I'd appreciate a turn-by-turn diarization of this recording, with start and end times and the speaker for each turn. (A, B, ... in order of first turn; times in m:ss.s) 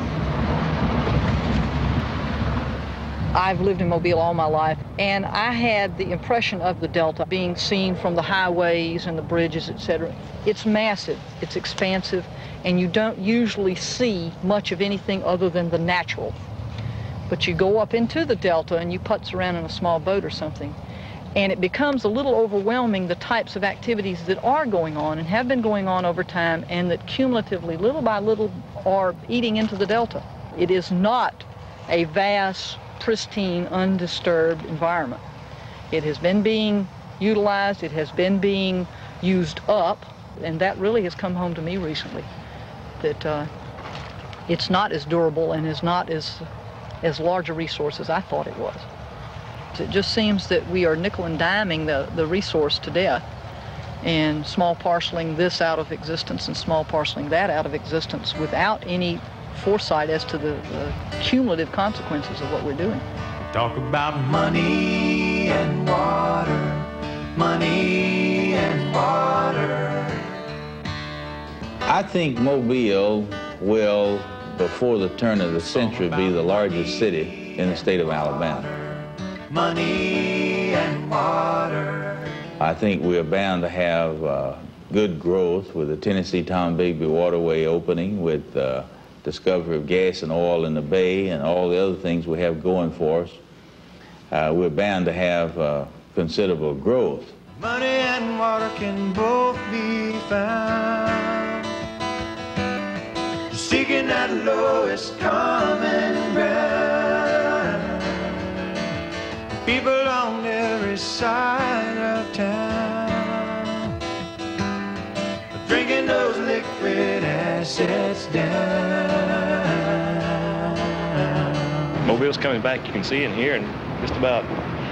0:03.3-0:16.4 A
0:17.3-0:20.8 A
0:21.3-0:35.2 A
0:35.9-0:42.3 A
0:43.0-0:43.5 A
0:44.5-0:46.4 A
0:47.0-0:48.9 A
0:49.7-0:53.2 A
0:54.0-1:03.0 A
1:04.2-1:06.7 B
1:07.4-1:10.0 B
1:11.8-1:18.7 C
1:19.5-1:22.1 B
1:22.6-1:33.4 C
1:34.3-1:37.4 C
1:37.6-1:41.1 B
1:43.5-1:47.4 B
1:49.6-1:53.3 B
1:55.6-1:59.5 B
2:02.0-2:04.5 D